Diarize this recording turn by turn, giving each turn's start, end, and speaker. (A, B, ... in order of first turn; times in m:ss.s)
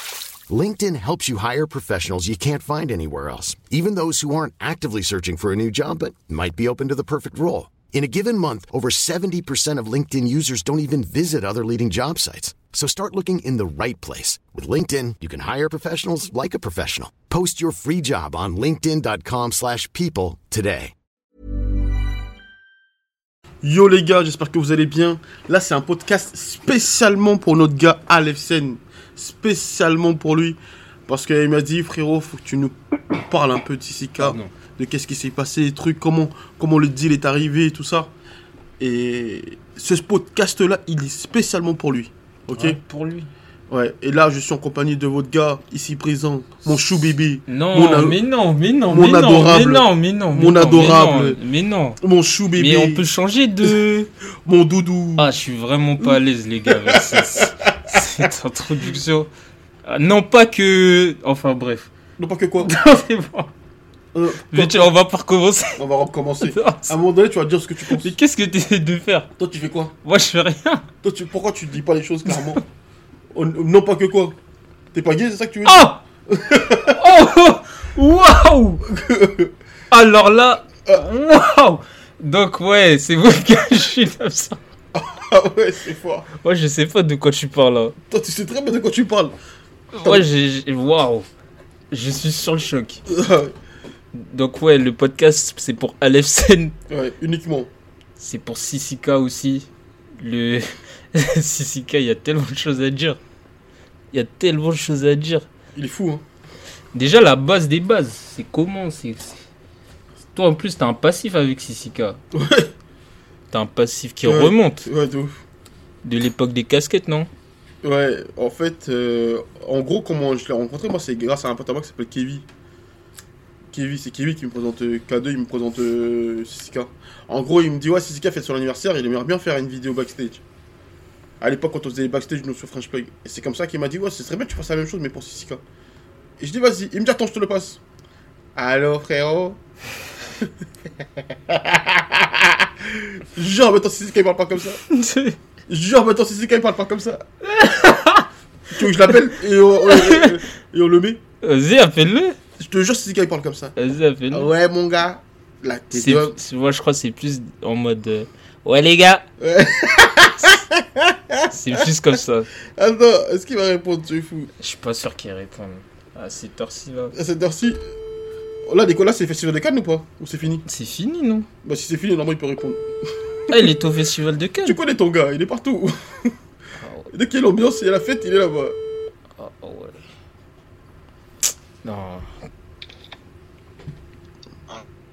0:00.5-0:20.9 A
0:23.6-0:38.1 B
0:34.2-0:34.5 C
0:38.8-0:42.8 B
0:42.6-0:43.3 C
0:43.7-0:48.2 B
0:47.5-0:52.0 C
0:48.9-0:51.4 B
0:52.0-0:53.0 B
0:52.6-0:54.1 C
0:54.5-0:55.3 B
0:55.2-0:59.3 C
0:56.7-0:58.3 B
0:59.9-1:01.9 C
1:02.2-1:02.7 B
1:02.6-1:03.5 C
1:04.1-1:04.9 B
1:04.5-1:05.8 C
1:05.8-1:08.1 B
1:06.4-1:06.9 C
1:08.0-1:09.3 C
1:09.4-1:10.0 B
1:10.0-1:10.8 C
1:11.0-1:12.6 B
1:12.3-1:12.6 C
1:13.3-1:14.4 B
1:14.9-1:17.0 B
1:15.6-1:16.0 C
1:16.8-1:18.8 C
1:18.9-1:19.5 B
1:19.9-1:24.6 C
1:24.9-1:26.3 B
1:26.4-1:28.0 C
1:28.1-1:29.3 B
1:29.9-1:31.3 C
1:31.9-1:33.0 C
1:33.1-1:33.5 B
1:34.1-1:36.7 C
1:36.9-1:37.7 B
1:38.2-1:39.7 C
1:40.2-1:43.2 C
1:44.1-1:45.5 C
1:45.8-1:46.2 B
1:46.9-1:49.4 C
1:50.4-1:52.2 C
1:52.3-1:52.7 B
1:53.5-1:54.9 C
1:54.2-1:55.3 B
1:56.0-1:57.3 C
1:57.8-2:02.5 B
2:03.7-2:10.4 B
2:11.4-2:15.6 B
2:16.4-2:17.8 B
2:18.6-2:19.6 B
2:21.5-2:24.8 B
2:24.9-2:25.4 C
2:25.7-2:27.2 B
2:27.5-2:28.3 C
2:28.7-2:31.2 B
2:29.9-2:30.3 C
2:31.4-2:32.4 C
2:32.6-2:33.7 B
2:33.8-2:34.5 C
2:34.3-2:36.4 B
2:36.0-2:39.2 C
2:39.4-2:41.8 B
2:41.5-2:42.5 C
2:42.8-2:44.5 B
2:44.6-2:47.2 C
2:47.1-2:47.8 B
2:48.7-2:50.6 B
2:50.7-2:51.5 C
2:51.6-2:52.8 B
2:53.5-2:53.7 B
2:53.5-2:54.8 C
2:54.6-2:56.4 B
2:56.8-2:57.1 C
2:57.1-2:58.8 B
2:59.4-3:00.0 C
3:01.8-3:02.3 C